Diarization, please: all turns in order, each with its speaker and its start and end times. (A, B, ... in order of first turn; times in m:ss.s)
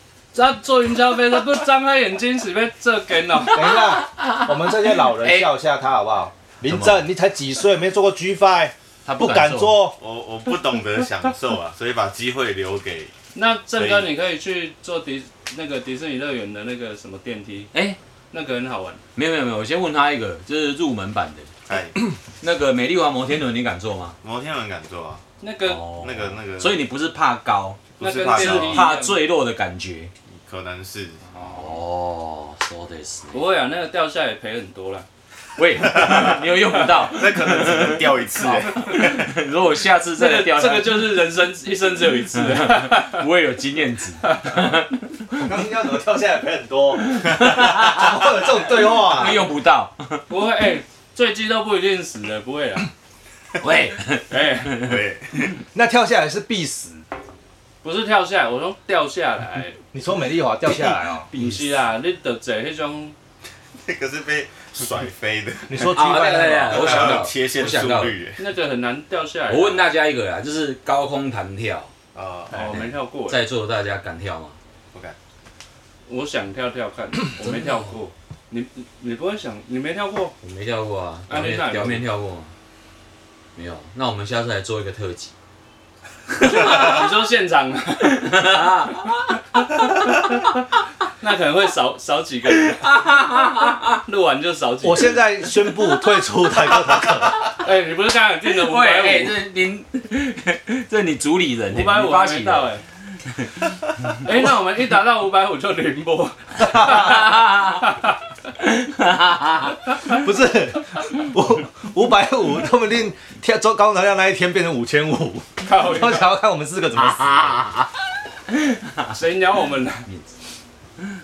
0:00.3-0:03.8 A
0:03.5-0:10.0 B
0:03.8-0:05.5 C
0:06.7-0:07.0 C
0:09.0-0:09.8 C
0:10.0-0:13.1 D
0:13.3-0:17.7 A
0:13.8-0:14.1 D
0:17.7-0:18.0 C
0:18.3-0:19.0 A
0:19.2-0:21.5 C
0:21.7-0:22.0 D
0:22.4-0:24.2 C
0:24.2-0:25.2 D
0:25.4-0:25.8 A
0:25.6-0:30.1 C
0:25.9-0:26.8 D
0:28.0-0:28.9 D
0:28.0-0:29.2 A
0:30.3-0:31.4 D
0:31.4-0:31.6 A
0:31.4-0:33.5 C
0:33.3-0:35.1 A
0:35.6-0:41.2 C
0:35.8-0:39.3 D
0:40.2-0:43.2 A
0:42.3-0:45.4 C
0:44.2-0:44.6 A
0:45.4-0:49.4 B
0:47.0-0:50.2 C
0:50.3-0:52.9 A
0:53.6-0:55.0 C
0:54.3-0:54.8 A
0:54.8-0:55.6 D
0:55.7-0:57.0 B
0:57.8-0:59.8 A
0:59.9-1:01.3 B
1:01.3-1:01.7 C
1:01.3-1:03.2 A
1:03.8-1:05.9 D
1:05.7-1:07.2 B
1:05.8-1:08.2 C
1:06.7-1:08.4 D
1:08.4-1:09.9 A
1:09.5-1:11.9 C
1:12.2-1:12.6 D
1:12.5-1:13.4 A
1:12.6-1:14.6 C
1:16.1-1:20.4 A
1:17.4-1:17.9 C
1:20.4-1:22.5 C
1:21.3-1:22.1 A
1:23.6-1:25.3 C
1:26.4-1:27.0 C
1:26.4-1:28.6 A
1:28.0-1:29.4 C
1:29.8-1:30.4 A
1:31.1-1:33.0 A
1:32.5-1:34.0 C
1:33.9-1:35.2 A
1:34.8-1:37.5 B
1:37.6-1:39.4 A
1:38.5-1:42.7 C
1:41.7-1:42.8 A
1:44.2-1:48.1 A
1:46.6-1:47.3 B
1:46.8-1:47.9 C
1:48.6-1:49.8 C
1:50.0-1:57.7 B
1:55.6-1:56.3 A
1:57.0-1:57.9 C
1:58.5-1:59.2 C
1:59.1-2:00.1 A
2:00.1-2:00.3 C